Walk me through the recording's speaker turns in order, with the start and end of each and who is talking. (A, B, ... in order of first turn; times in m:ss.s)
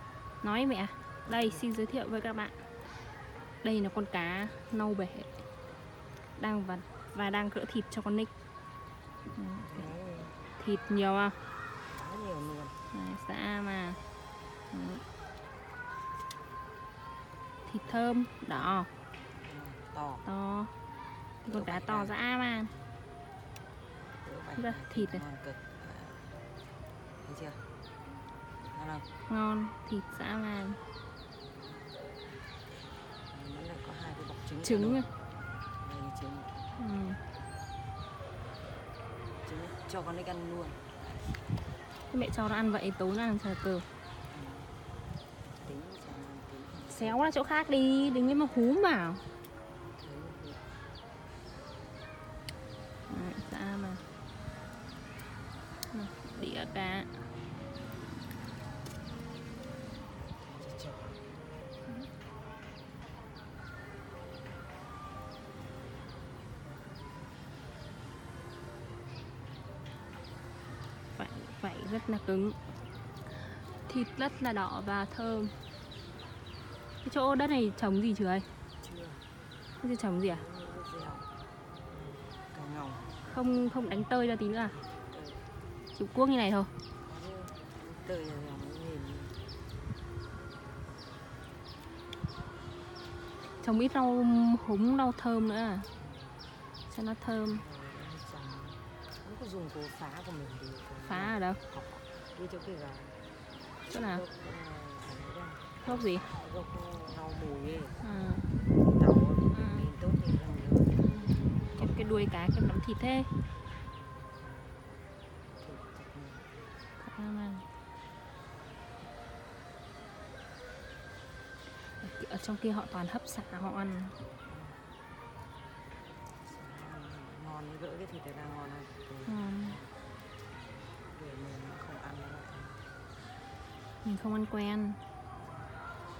0:00.4-0:02.5 A
0:01.2-0:01.7 B
0:03.6-0:05.3 A
0:06.4-0:08.3 A
0:09.3-0:09.8 A
0:09.5-0:10.4 B
0:10.6-0:11.4 A
0:11.9-0:12.8 B
0:12.9-0:14.0 A
0:14.7-0:15.0 A
0:17.7-0:18.9 A
0:19.3-0:20.2 B
0:20.2-0:20.7 A
0:21.4-0:22.7 A
0:21.4-0:22.9 B
0:23.9-0:26.3 B
0:24.6-0:25.2 A
0:27.2-0:27.6 B
0:28.7-0:29.1 B
0:29.3-0:30.8 A
0:31.5-0:31.9 B
0:33.3-0:35.1 B
0:34.6-0:35.1 A
0:35.8-0:36.6 B
0:36.8-0:37.2 A
0:39.4-0:40.9 B
0:42.1-0:43.9 A
0:44.3-0:44.7 B
0:45.4-0:47.2 B
0:46.9-0:49.2 A
0:49.9-0:50.6 B
0:53.1-0:54.0 A
0:55.9-0:57.1 A
1:00.4-1:01.2 B
1:11.2-1:12.6 A
1:13.4-1:15.6 A
1:17.0-1:18.5 A
1:18.8-1:19.2 B
1:19.8-1:20.4 A
1:20.2-1:21.3 B
1:21.9-1:23.2 B
1:23.2-1:24.8 A
1:24.9-1:25.5 B
1:25.9-1:26.7 A
1:27.0-1:29.4 B
1:33.6-1:35.9 A
1:36.0-1:36.4 B
1:36.9-1:37.6 A
1:37.4-1:43.2 B
1:41.0-1:41.6 A
1:43.8-1:48.0 B
1:43.9-1:44.2 A
1:45.8-1:46.3 A
1:48.0-1:48.5 A
1:48.7-1:52.2 B
1:49.5-1:49.9 A
1:51.1-1:53.4 A
1:54.4-1:54.7 B
1:55.6-1:56.4 B
1:57.0-1:57.6 A
2:02.0-2:04.2 A
2:04.4-2:04.8 B
2:06.4-2:09.9 B
2:09.2-2:09.8 A
2:11.1-2:12.8 B
2:14.0-2:15.0 A
2:15.4-2:15.7 B